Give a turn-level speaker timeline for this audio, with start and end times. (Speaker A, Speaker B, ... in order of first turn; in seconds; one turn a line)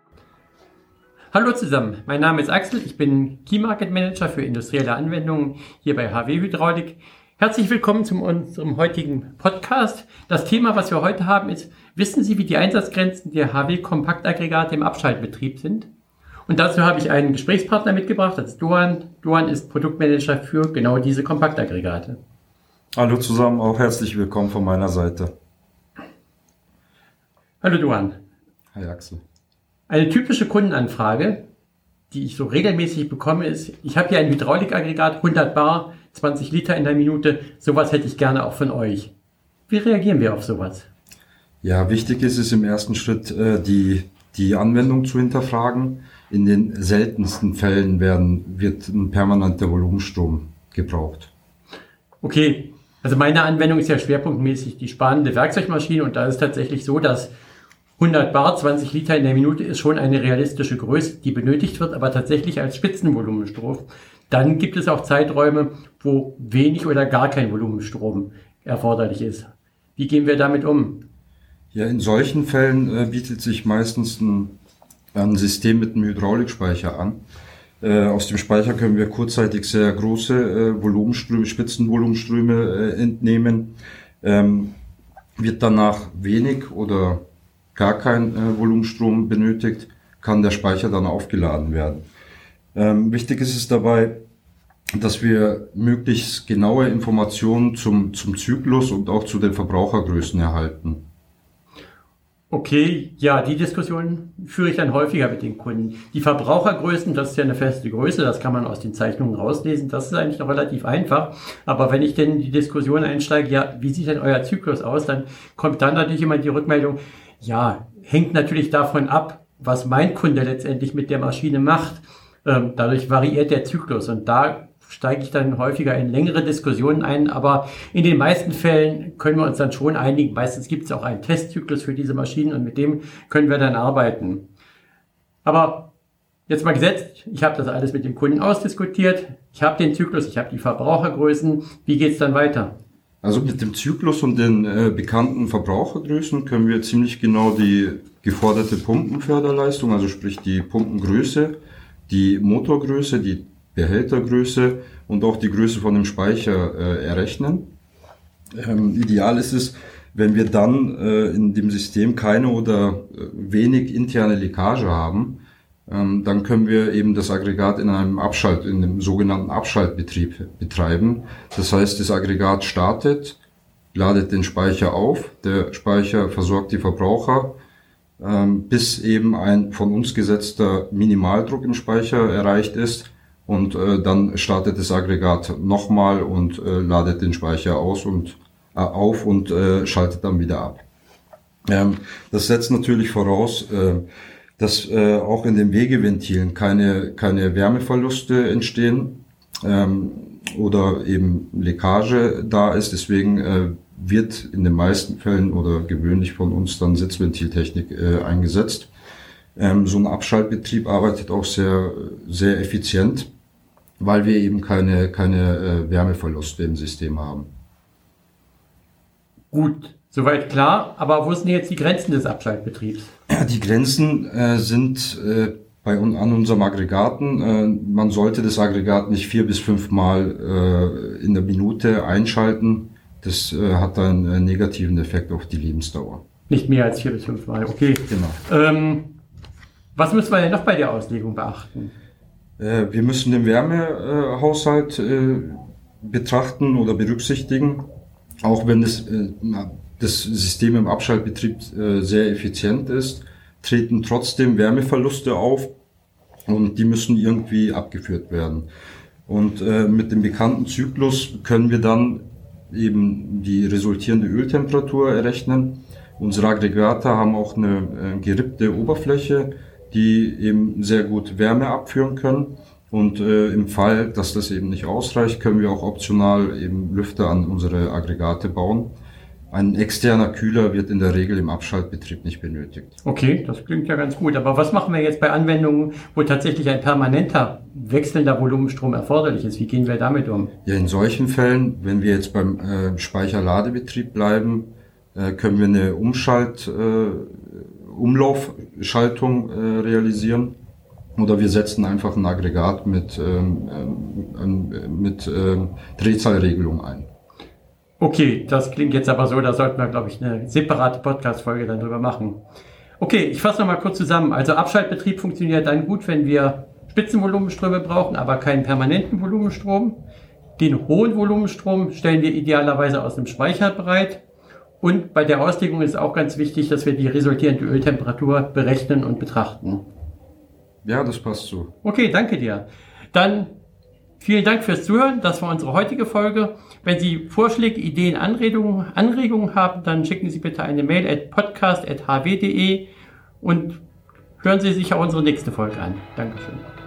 Speaker A: 1.3-15.9
Speaker A: 16.5-22.2
Speaker B: 23.0-25.3
Speaker A: 27.6-28.2
Speaker B: 28.8-29.2
Speaker A: 29.9-31.5
Speaker A: 32.1-39.1
Speaker A: 39.7-40.9
Speaker B: 41.6-51.3
Speaker A: 52.2-57.3
Speaker A: 58.0-71.0
Speaker B: 71.7-74.5
Speaker B: 75.1-77.2
Speaker B: 77.8-84.8
Speaker B: 85.4-87.2
Speaker B: 87.8-92.0
Speaker B: 92.8-94.2
Speaker B: 95.0-101.0
Speaker A: 102.5-134.5
Speaker A: 135.4-135.9
Speaker A: 136.5-142.8
Speaker B: 143.2-151.6
Speaker B: 152.1-157.7
Speaker B: 158.6-173.4
Speaker B: 173.9-177.6
Speaker B: 178.2-190.8
Speaker B: 191.7-194.0
Speaker B: 194.6-208.9
Speaker B: 209.6-213.3
Speaker B: 214.0-217.5
Speaker A: 219.5-223.1
Speaker B: 223.3-236.2
Speaker A: 236.5-239.2
Speaker B: 238.1-238.4
Speaker A: 239.9-241.9
Speaker B: 242.6-247.8
Speaker B: 248.4-255.7
Speaker B: 256.5-258.7
Speaker B: 259.3-278.9
Speaker B: 279.5-282.9
Speaker A: 283.0-290.5
Speaker B: 290.6-300.6
Speaker B: 301.2-307.1
Speaker A: 308.0-312.4
Speaker A: 313.0-320.0
Speaker A: 320.6-324.2
Speaker A: 324.8-329.8
Speaker B: 330.8-331.7
Speaker A: 331.8-333.5
Speaker A: 334.2-342.9
Speaker A: 343.4-343.8
Speaker A: 344.4-346.6